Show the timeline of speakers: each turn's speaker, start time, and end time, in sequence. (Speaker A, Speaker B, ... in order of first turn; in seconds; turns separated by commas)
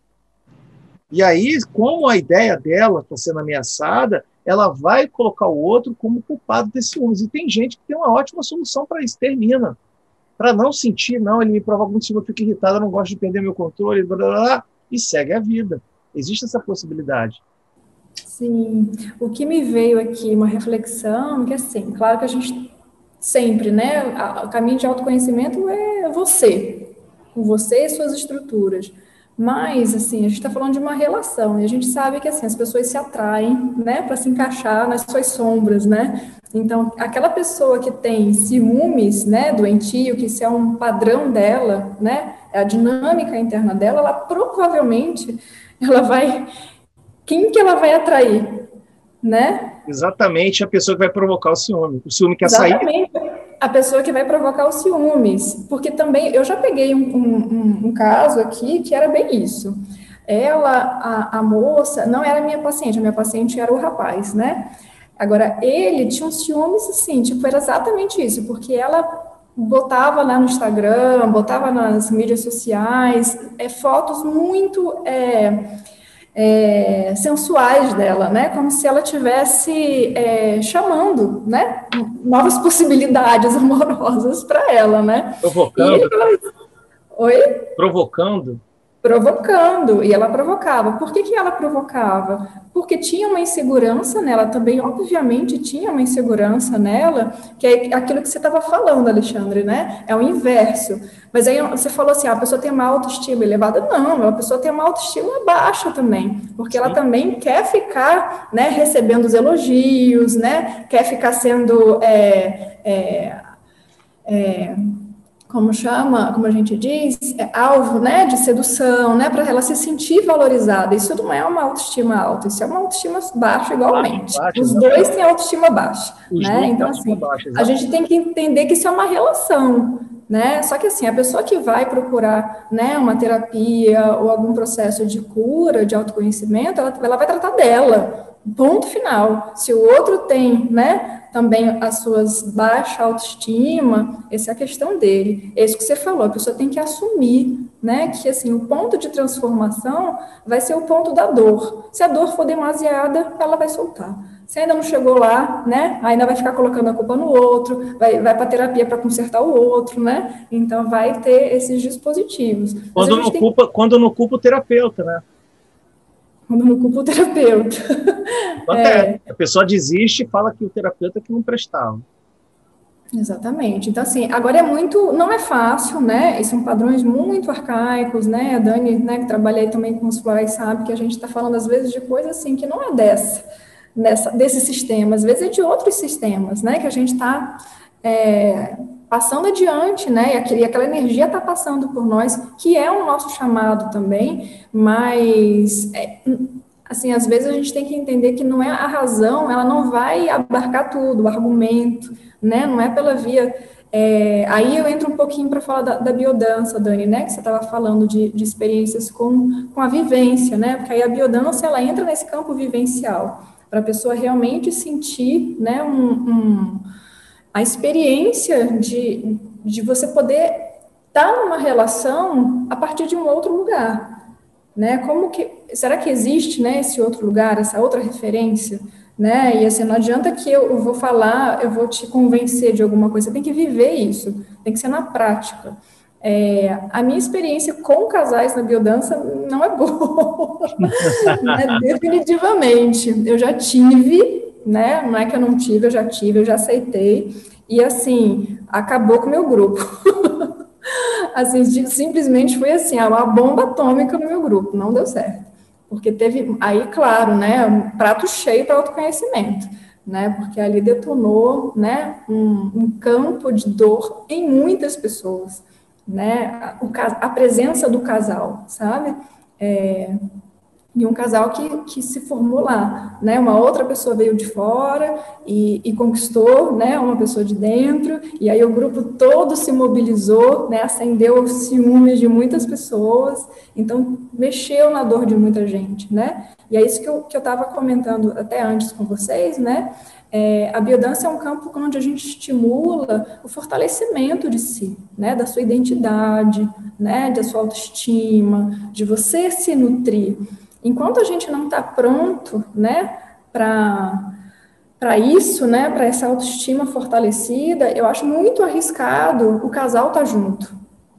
Speaker A: 1.1-9.8, Speaker A: 10.4-17.4, Speaker B: 18.3-46.5, Speaker B: 47.3-48.7, Speaker B: 49.2-49.8, Speaker A: 49.9-52.9, Speaker B: 52.4-59.8, Speaker B: 60.3-75.8, Speaker B: 76.3-86.4, Speaker A: 85.4-86.1, Speaker B: 87.2-87.7, Speaker A: 87.8-88.6, Speaker B: 89.0-113.4, Speaker A: 106.7-107.0, Speaker B: 114.3-114.8, Speaker B: 115.5-163.5, Speaker A: 123.9-125.1, Speaker A: 126.3-127.8, Speaker A: 163.0-165.2, Speaker B: 166.5-169.2, Speaker A: 168.7-172.1, Speaker B: 173.2-183.4, Speaker B: 183.9-216.9, Speaker B: 217.5-224.2, Speaker B: 224.8-270.2, Speaker A: 240.8-241.6, Speaker B: 270.9-304.4, Speaker B: 305.0-310.7